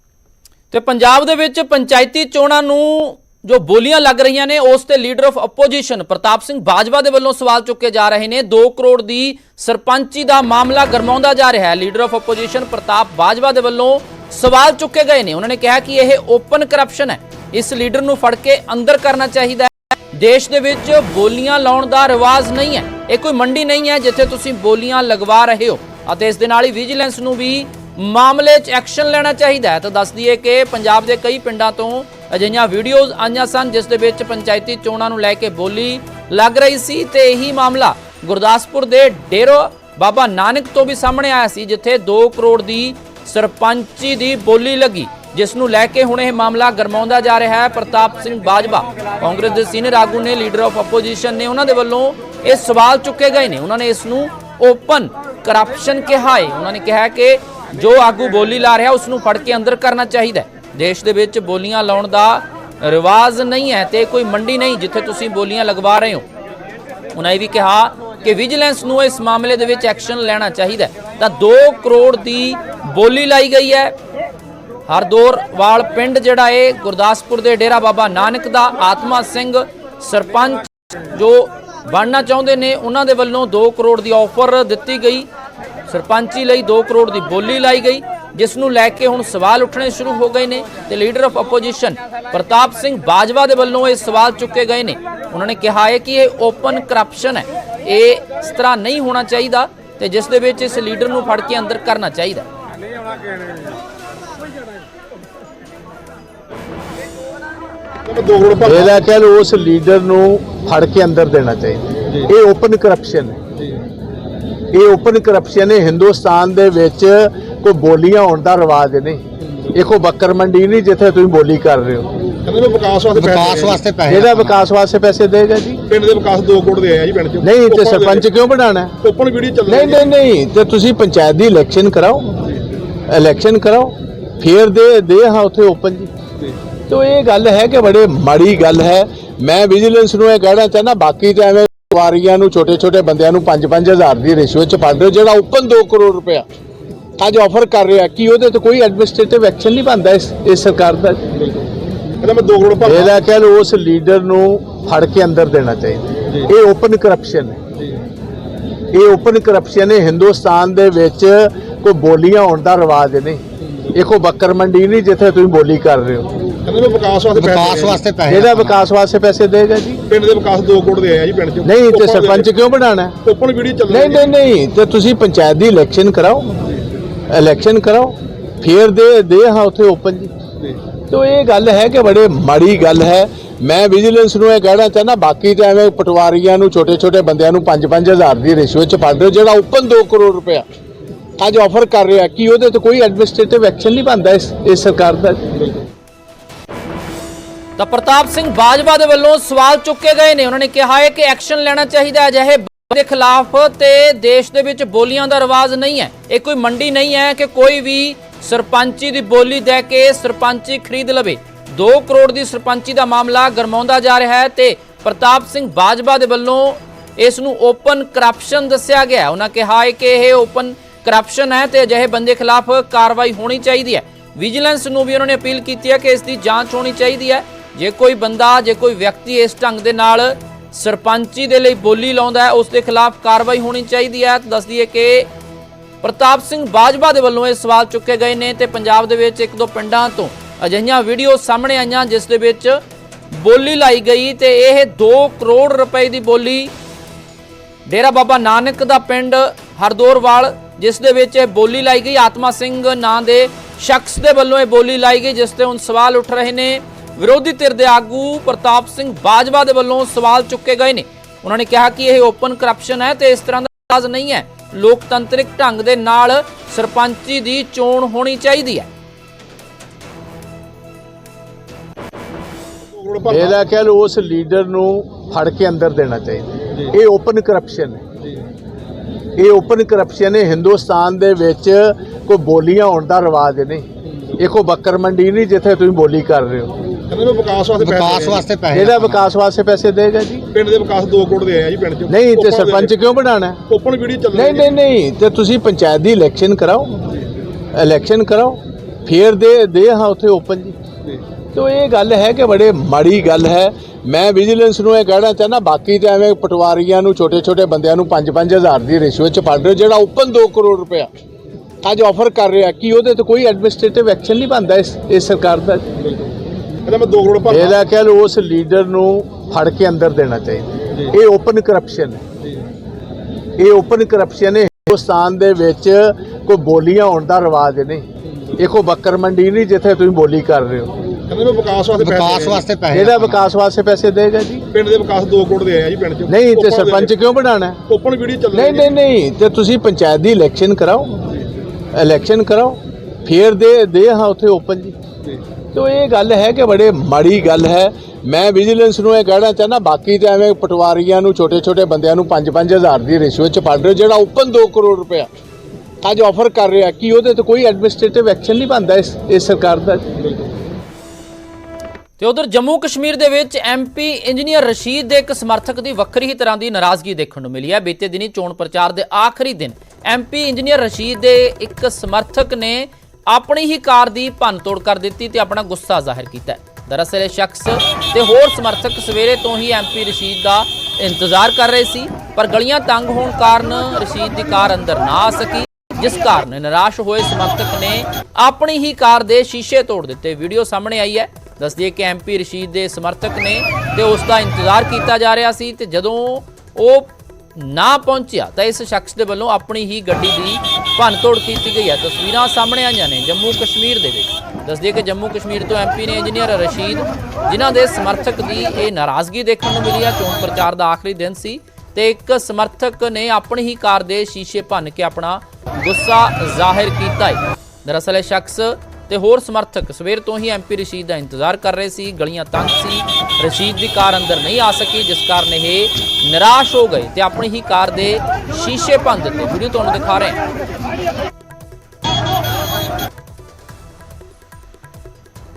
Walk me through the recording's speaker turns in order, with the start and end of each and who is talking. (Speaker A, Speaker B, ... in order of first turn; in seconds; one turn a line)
Speaker A: 0.7-66.2
Speaker A: 67.1-73.9
Speaker A: 74.9-85.3
Speaker A: 85.9-102.5
Speaker B: 108.0-109.1
Speaker C: 108.6-113.4
Speaker C: 114.7-122.1
Speaker B: 122.4-123.9
Speaker D: 123.1-124.6
Speaker C: 124.1-125.8
Speaker B: 125.9-128.3
Speaker C: 127.4-128.9
Speaker B: 129.0-130.1
Speaker C: 129.7-132.4
Speaker C: 133.1-136.1
Speaker C: 136.9-146.4
Speaker C: 147.2-151.2
Speaker B: 152.2-153.2
Speaker C: 152.8-157.6
Speaker C: 158.9-166.3
Speaker B: 166.6-168.4
Speaker D: 167.3-168.8
Speaker C: 168.3-170.0
Speaker B: 170.1-172.5
Speaker C: 171.6-173.2
Speaker B: 173.2-174.4
Speaker C: 173.9-176.6
Speaker C: 177.3-180.3
Speaker C: 181.1-190.6
Speaker C: 191.4-195.4
Speaker A: 197.8-235.3
Speaker A: 236.0-242.8
Speaker A: 243.3-246.7
Speaker A: 247.9-268.9
Speaker B: 272.8-273.7
Speaker C: 273.3-278.0
Speaker C: 279.4-283.9
Speaker C: 284.4-286.8
Speaker B: 287.1-288.7
Speaker D: 287.8-289.3
Speaker C: 288.7-290.4
Speaker B: 290.5-293.0
Speaker C: 292.1-293.6
Speaker B: 293.7-294.8
Speaker C: 294.3-297.1
Speaker C: 297.7-300.8
Speaker C: 301.5-311.1
Speaker C: 311.8-315.8
Speaker B: 316.8-317.8
Speaker C: 317.5-322.2
Speaker C: 323.6-328.1
Speaker C: 328.6-330.9
Speaker B: 331.3-332.7
Speaker D: 332.0-333.4
Speaker C: 332.9-334.7
Speaker B: 334.7-337.2
Speaker C: 336.3-337.8
Speaker B: 337.9-339.0
Speaker C: 338.5-341.3
Speaker C: 341.9-345.0
Speaker C: 345.7-355.3
Speaker C: 356.0-360.0
Speaker A: 362.2-430.4